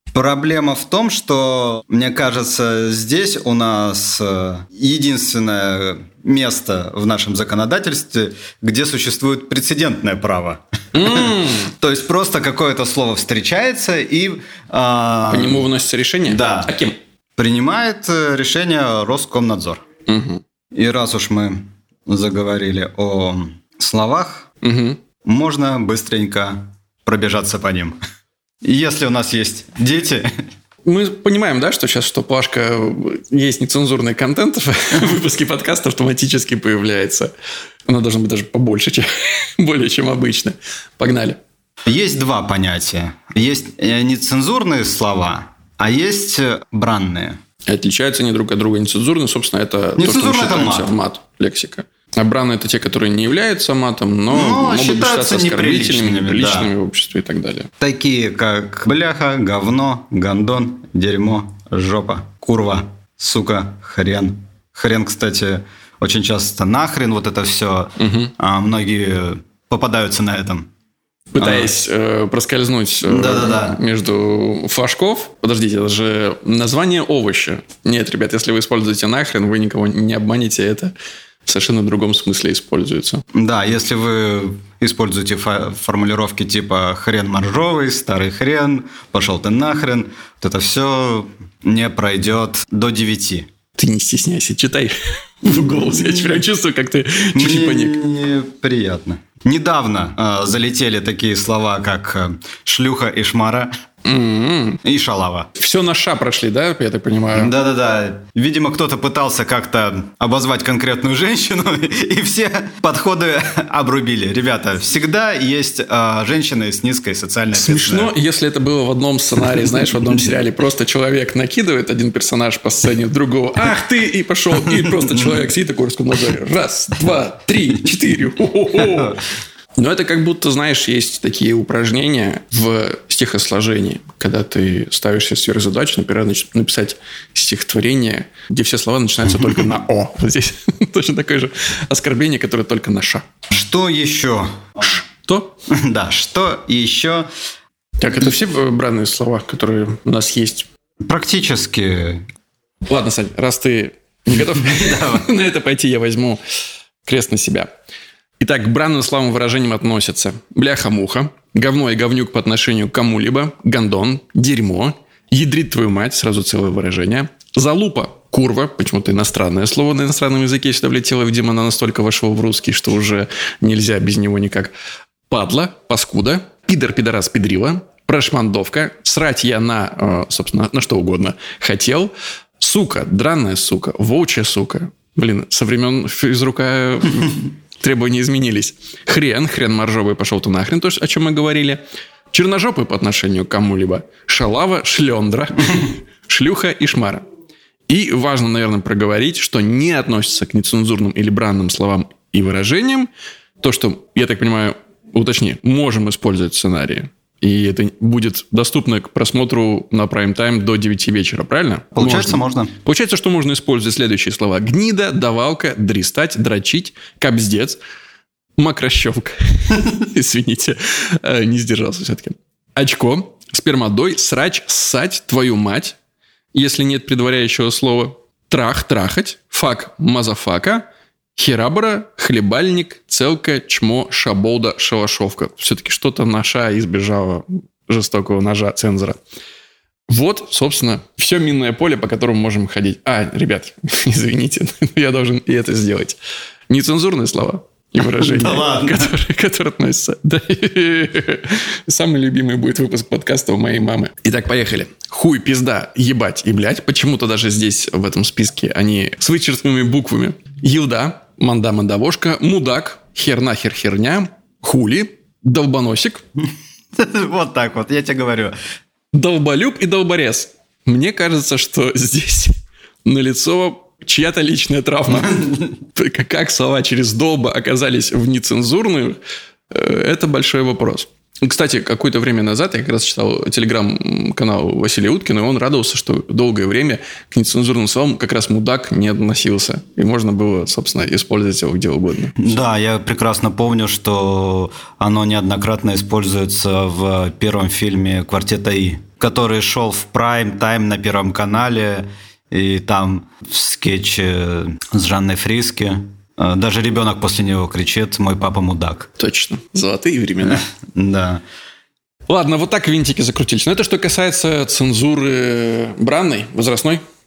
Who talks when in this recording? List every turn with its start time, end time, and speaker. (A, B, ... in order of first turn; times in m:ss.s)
0:00.1-0:15.7 A
0:10.9-0:11.7 B
0:15.3-0:17.0 B
0:16.2-0:16.7 A
0:17.4-0:19.8 A
0:20.1-0:20.4 B
0:20.7-0:24.5 A
0:24.6-0:25.0 B
0:25.2-0:28.0 A
0:28.6-0:30.3 A
0:30.8-0:37.3 B
0:37.9-0:41.4 B
0:41.8-0:47.4 A
0:47.7-0:57.7 B
0:50.0-0:50.9 A
0:54.3-0:56.7 A
0:57.8-1:10.7 A
1:08.0-1:08.3 B
1:11.3-1:20.9 B
1:11.4-1:11.7 A
1:13.0-1:13.8 A
1:21.4-1:23.2 B
1:23.3-1:33.5 A
1:33.8-1:38.0 B
1:37.4-1:43.7 A
1:44.0-1:44.8 B
1:44.8-1:45.5 A
1:45.6-1:47.5 B
1:47.3-1:58.1 A
1:57.5-2:09.2 B
2:04.7-2:05.3 A
2:09.8-2:23.2 B
2:23.5-2:24.8 A
2:24.8-2:25.5 B
2:25.7-2:27.3 A
2:28.0-2:30.7 B
2:31.0-2:32.3 A
2:32.9-2:36.4 B
2:34.6-2:35.3 A
2:37.0-2:37.7 B
2:38.4-2:54.7 B
2:55.3-3:17.2 B
3:17.9-3:23.1 B
3:23.6-3:37.8 B
3:31.9-3:32.7 A
3:38.6-3:46.0 B
3:46.5-3:59.2 B
4:00.1-4:06.2 B
4:06.7-4:26.2 B
4:08.1-4:09.1 A
4:26.9-4:28.6 A
4:29.1-4:39.2 B
4:35.2-4:35.7 A
4:39.7-4:52.5 B
4:52.4-5:09.1 A
5:09.2-5:10.6 B
5:10.4-5:11.4 A
5:12.3-5:17.0 B